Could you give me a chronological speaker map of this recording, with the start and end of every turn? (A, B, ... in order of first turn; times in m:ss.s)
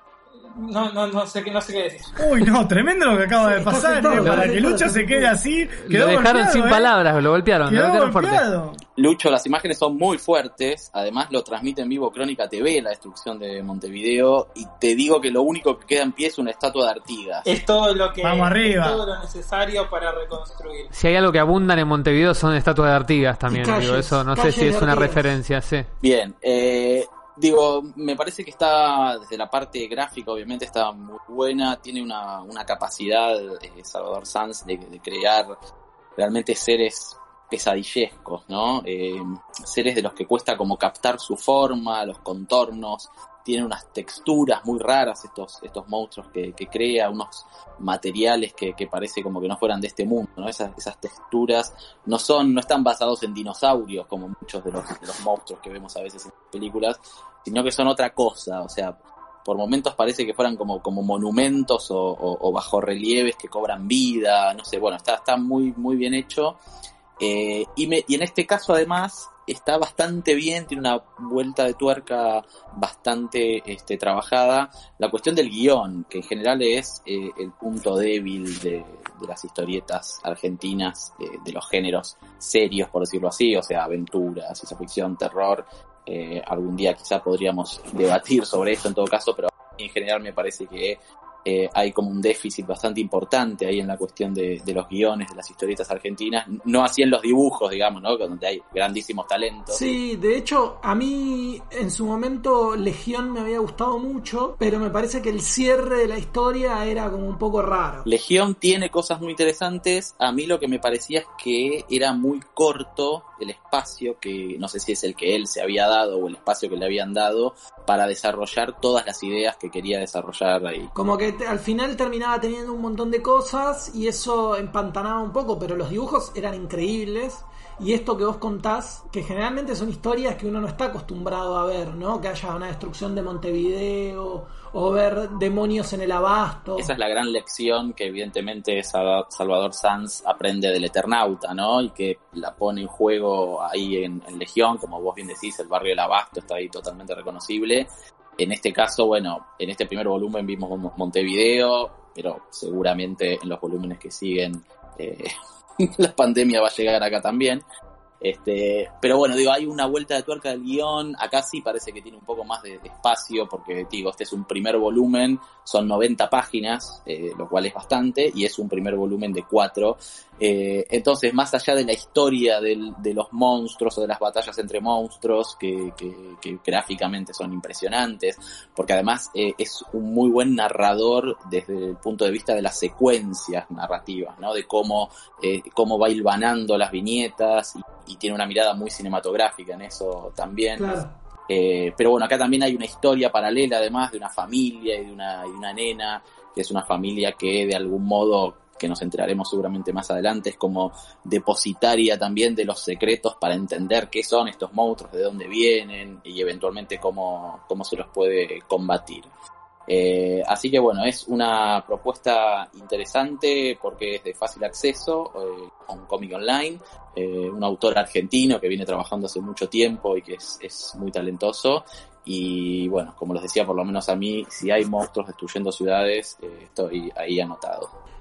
0:00.4-0:02.5 A
0:02.2-0:06.9 B
0:03.4-0:05.4 C
0:04.2-0:04.5 D
0:05.8-0:08.4 D
0:07.7-0:08.8 B
0:09.0-0:17.5 E
0:17.4-0:20.9 A
0:18.2-0:19.0 B
0:20.9-0:25.9 D
0:23.5-0:25.3 C
0:26.0-0:35.5 E
0:36.2-1:06.6 E
1:07.2-1:39.8 E
1:39.7-1:48.0 C
1:48.0-2:00.9 E
2:00.9-2:16.9 C
2:16.8-2:27.9 E
2:28.4-2:37.6 E
2:38.2-3:29.3 E
3:10.8-3:11.1 C
3:29.9-3:47.9 E